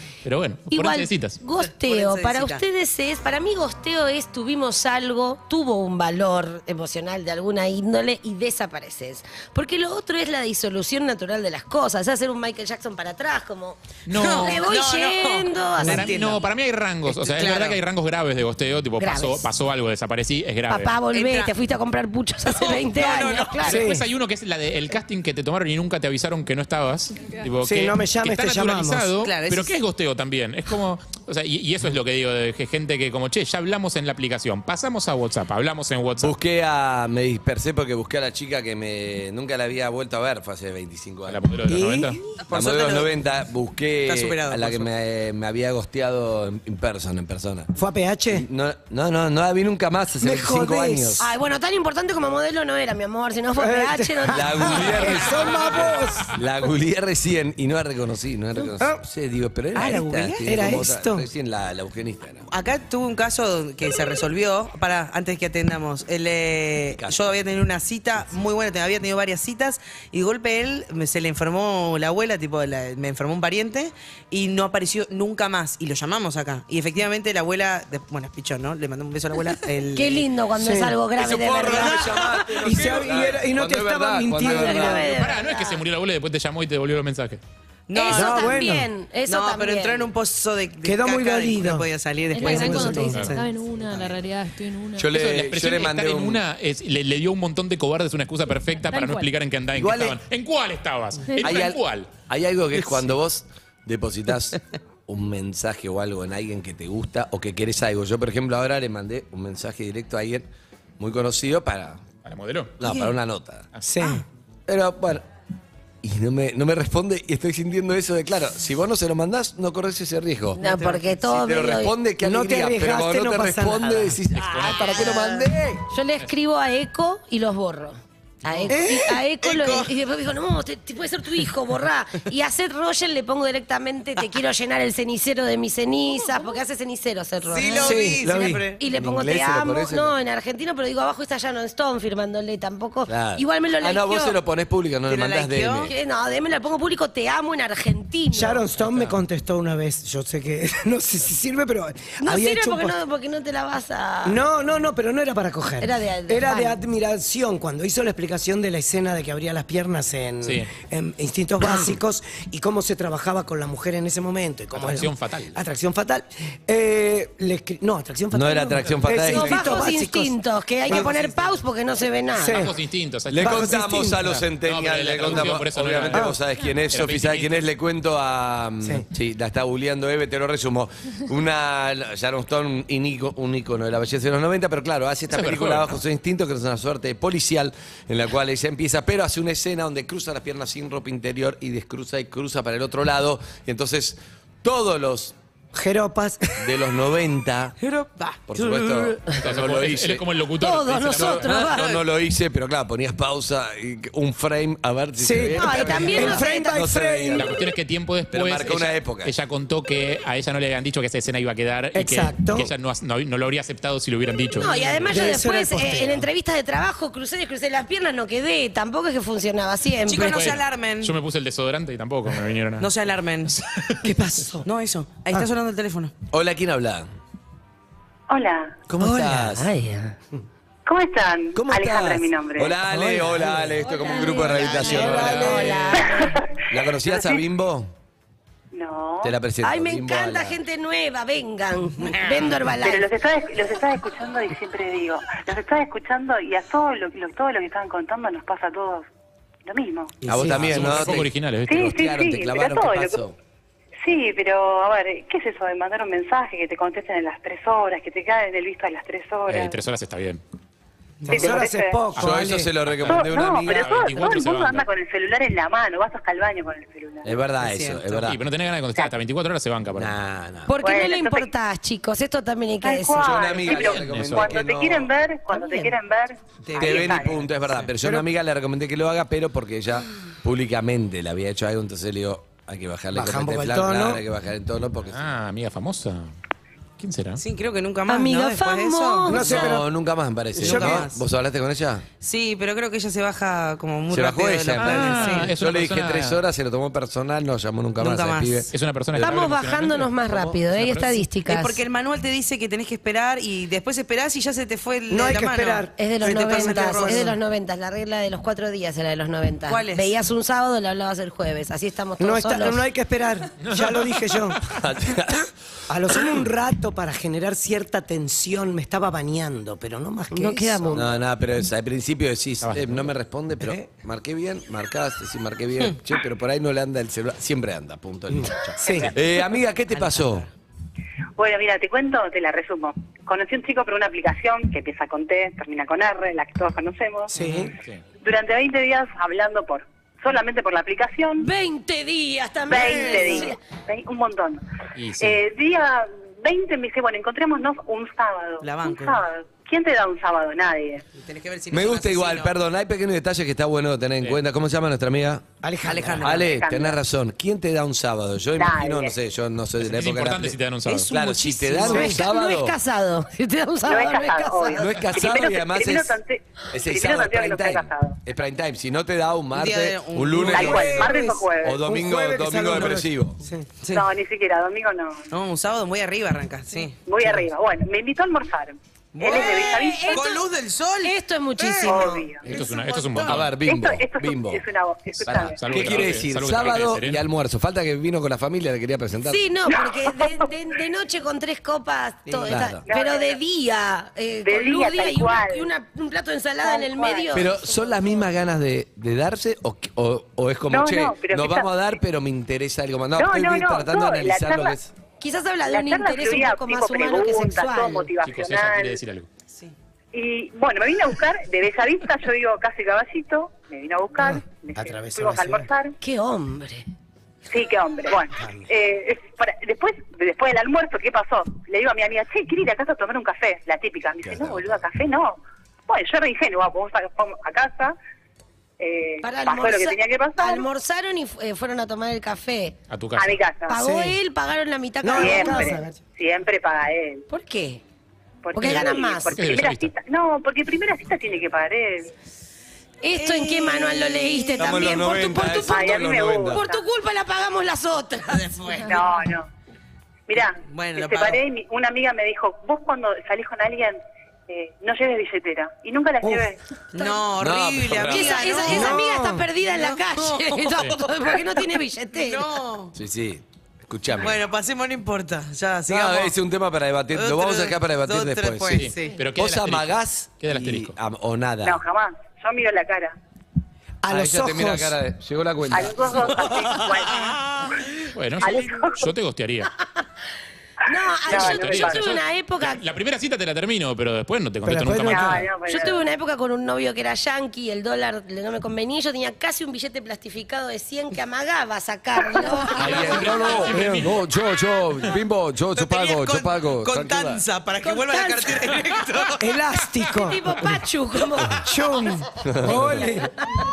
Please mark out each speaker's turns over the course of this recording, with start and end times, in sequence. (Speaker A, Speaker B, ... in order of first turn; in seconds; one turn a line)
Speaker A: 0.2-1.4
Speaker B: 0.7-16.4
Speaker C: 1.6-2.6
Speaker A: 14.1-14.6
Speaker C: 14.1-16.5
Speaker A: 15.8-20.9
Speaker C: 17.1-17.8
Speaker B: 19.0-19.5
Speaker B: 20.7-23.9
Speaker C: 21.1-21.5
Speaker C: 22.5-23.8
Speaker A: 23.6-36.3
Speaker D: 23.7-24.1
Speaker D: 27.6-29.1
Speaker C: 29.2-29.8
Speaker E: 36.2-41.4
Speaker A: 41.3-42.2
Speaker D: 41.7-42.2
Speaker C: 42.5-43.1
Speaker E: 42.5-47.7
Speaker C: 44.1-44.8
Speaker D: 47.8-48.5
Speaker E: 48.3-51.3
Speaker D: 50.2-51.2
Speaker B: 51.2-55.2
Speaker D: 53.6-56.3
Speaker E: 54.3-62.5
Speaker A: 55.2-55.9
Speaker C: 59.8-60.8
Speaker D: 60.4-61.3
Speaker C: 62.5-80.3
Speaker E: 67.0-67.4
Speaker B: 80.0-82.3
Speaker D: 80.6-81.0
Speaker E: 81.2-85.1
Speaker C: 81.7-82.7
Speaker D: 82.6-85.2
Speaker B: 84.4-85.8
Speaker A: 85.1-87.4
Speaker C: 87.9-88.7
Speaker B: 87.9-90.1
Speaker D: 88.1-88.9
Speaker C: 89.3-93.5
Speaker D: 90.8-91.9
Speaker F: 92.3-95.1
Speaker D: 92.4-93.3
Speaker E: 95.0-96.4
Speaker A: 95.1-102.1
Speaker F: 98.7-99.3
Speaker E: 99.7-100.2
Speaker E: 101.4-110.5
Speaker E: 111.0-112.0
Speaker A: 112.2-112.8
Speaker E: 112.8-113.7
Speaker C: 112.8-113.1
Speaker D: 113.8-114.2
Speaker E: 114.7-115.3
Speaker E: 116.0-120.6
Speaker B: 120.6-122.0
Speaker C: 120.6-121.2
Speaker E: 121.3-125.8
Speaker D: 122.2-124.2
Speaker A: 124.3-125.2
Speaker C: 124.7-125.5
Speaker B: 125.9-138.2
Speaker C: 128.5-128.7
Speaker D: 128.7-129.2
Speaker C: 129.4-129.9
Speaker C: 137.4-138.8
Speaker D: 137.7-138.7
Speaker B: 138.7-144.4
Speaker E: 138.9-140.2
Speaker E: 143.1-145.9
Speaker C: 145.1-145.9
Speaker B: 145.8-148.6
Speaker D: 148.3-153.0
Speaker A: 148.8-149.2
Speaker B: 152.2-154.4
Speaker D: 154.2-171.3
Speaker B: 155.8-156.8
Speaker A: 160.4-160.7
Speaker A: 164.7-165.6
Speaker E: 168.3-169.9
Speaker B: 169.2-172.7
Speaker C: 170.9-171.3
Speaker D: 172.3-172.8
Speaker A: 172.5-176.4
Speaker E: 173.3-195.3
Speaker D: 173.4-174.2
Speaker A: 176.9-177.6
Speaker A: 185.3-186.0
Speaker D: 195.7-196.7
Speaker E: 196.6-197.8
Speaker C: 197.8-199.1
Speaker E: 198.5-200.2
Speaker A: 199.3-201.6
Speaker B: 200.6-201.9
Speaker C: 201.5-202.0
Speaker E: 201.5-207.6
Speaker D: 205.2-207.7
Speaker B: 205.5-206.8
Speaker A: 207.3-215.3
Speaker E: 208.3-209.3
Speaker D: 211.9-212.7
Speaker B: 214.5-220.6
Speaker D: 215.1-216.3
Speaker C: 220.1-221.2
Speaker A: 220.2-222.9
Speaker C: 222.8-223.6
Speaker D: 224.0-224.7
Speaker C: 224.6-226.1
Speaker E: 226.3-227.1
Speaker G: 228.3-228.8
Speaker E: 228.9-229.7
Speaker D: 229.0-229.5
Speaker B: 229.4-230.2
Speaker G: 230.9-232.8
Speaker E: 231.5-235.7
Speaker D: 232.8-233.8
Speaker B: 233.8-236.4
Speaker A: 234.8-236.1
Speaker D: 234.9-235.8
Speaker G: 236.0-237.4
Speaker E: 236.7-237.9
Speaker G: 238.7-239.4
Speaker E: 239.2-240.6
Speaker B: 239.6-243.1
Speaker G: 242.8-249.1
Speaker G: 249.7-250.2
Speaker D: 250.2-251.0
Speaker E: 250.3-253.4
Speaker A: 250.4-251.8
Speaker G: 251.7-253.2
Speaker G: 254.0-259.8
Speaker A: 259.5-260.4
Speaker C: 261.2-261.5
Speaker D: 261.2-262.7
Speaker G: 261.3-262.0
Speaker A: 262.2-264.9
Speaker E: 262.2-264.2
Speaker G: 263.1-267.3
Speaker E: 267.2-268.4
Speaker C: 267.6-268.3
Speaker A: 268.2-270.1
Speaker E: 269.9-270.7
Speaker B: 270.7-273.4
Speaker G: 270.8-271.5
Speaker G: 272.8-277.4
Speaker E: 273.1-275.1
Speaker A: 273.7-274.5
Speaker C: 276.7-277.9
Speaker E: 276.8-285.2
Speaker D: 283.1-284.2
Speaker A: 285.1-286.3
Speaker A: 287.0-287.4
Speaker C: 287.4-289.8
Speaker B: 288.1-289.7
Speaker D: 289.3-289.9
Speaker E: 289.5-292.1
Speaker D: 290.6-291.1
Speaker C: 290.6-291.2
Speaker C: 292.2-295.6
Speaker E: 294.1-298.7
Speaker A: 294.8-296.4
Speaker C: 298.0-298.7
Speaker A: 298.7-301.2
Speaker B: 299.2-301.8
Speaker C: 301.5-307.4
Speaker D: 305.1-307.3
Speaker B: 306.0-312.8
Speaker C: 309.7-310.1
Speaker D: 312.2-314.7
Speaker A: 313.6-314.0
Speaker E: 314.7-315.5
Speaker D: 315.9-321.1
Speaker B: 320.3-321.1
Speaker E: 320.9-330.5
Speaker A: 322.6-323.1
Speaker D: 328.3-329.1
Speaker C: 329.9-330.5
Speaker G: 331.4-337.4
Speaker D: 337.3-337.7
Speaker C: 337.3-337.7
Speaker G: 338.2-341.5
Speaker B: 341.4-343.6
Speaker G: 342.7-344.6
Speaker A: 345.0-345.4
Speaker G: 345.2-351.1
Speaker C: 348.6-349.2
Speaker C: 351.1-352.5
Speaker E: 351.7-355.5
Speaker D: 355.6-356.3
Speaker C: 355.8-356.5
Speaker E: 356.2-362.8
Speaker G: 356.4-357.0
Speaker G: 358.6-359.2
Speaker A: 359.8-361.1
Speaker C: 360.9-361.9
Speaker B: 361.8-364.9
Speaker D: 361.8-362.2
Speaker G: 363.9-368.2
Speaker E: 364.8-366.2
Speaker E: 366.7-373.4
Speaker C: 369.5-371.1
Speaker D: 370.5-373.7
Speaker G: 370.5-371.8
Speaker G: 373.9-375.3
Speaker C: 375.3-377.0
Speaker G: 377.1-380.4
Speaker C: 379.1-381.2
Speaker B: 379.2-380.4
Speaker B: 381.0-382.3
Speaker D: 381.6-382.8
Speaker G: 381.8-382.5
Speaker A: 382.4-383.6
Speaker C: 382.6-383.3
Speaker E: 383.2-384.6
Speaker G: 383.6-386.1
Speaker E: 385.2-389.5
Speaker A: 385.3-387.2
Speaker B: 389.2-397.8
Speaker G: 389.7-390.5
Speaker C: 392.3-392.7
Speaker E: 392.5-392.8
Speaker G: 392.9-393.4
Speaker G: 394.4-395.7
Speaker G: 396.6-397.5
Speaker E: 397.3-404.9
Speaker G: 400.7-401.7
Speaker G: 403.2-404.8
Speaker B: 405.2-408.1
Speaker G: 405.7-409.0
Speaker A: 408.2-409.3
Speaker G: 410.1-415.9
Speaker D: 414.2-415.7
Speaker B: 416.0-416.9
Speaker G: 417.5-428.0
Speaker D: 418.4-418.7
Speaker E: 424.2-424.9
Speaker G: 428.8-430.7
Speaker B: 429.2-432.8
Speaker A: 432.9-433.4
Speaker G: 433.2-433.8
Speaker B: 433.7-435.8
Speaker D: 433.8-434.2
Speaker D: 435.0-436.0
Speaker G: 435.1-437.3
Speaker B: 437.3-437.8
Speaker G: 438.4-442.1
Speaker B: 438.5-439.4
Speaker A: 439.3-439.9
Speaker B: 443.0-448.9
Speaker C: 443.1-444.9
Speaker E: 444.6-446.6
Speaker G: 445.6-446.8
Speaker C: 448.3-449.2
Speaker G: 448.9-449.5
Speaker G: 450.3-456.6
Speaker C: 450.6-451.4
Speaker C: 456.9-459.1
Speaker E: 457.4-458.6
Speaker B: 458.1-462.6
Speaker D: 458.7-459.5
Speaker C: 459.6-461.4
Speaker C: 462.1-462.9
Speaker E: 462.9-464.4
Speaker C: 464.2-466.3
Speaker E: 465.9-471.8
Speaker C: 467.1-469.3
Speaker A: 468.7-470.9
Speaker G: 471.6-473.2
Speaker D: 474.0-475.0
Speaker E: 474.1-476.6
Speaker G: 475.7-477.7
Speaker A: 478.1-479.7
Speaker G: 478.4-479.1
Speaker B: 480.9-482.8
Speaker G: 481.2-482.2
Speaker A: 481.3-485.5
Speaker D: 484.6-485.4
Speaker G: 485.1-486.0
Speaker B: 485.7-493.4
Speaker A: 492.8-494.2
Speaker E: 492.8-497.4
Speaker C: 495.8-499.5
Speaker B: 497.8-498.7
Speaker D: 499.4-500.8
Speaker B: 500.1-501.8
Speaker D: 501.5-503.4
Speaker E: 502.4-503.2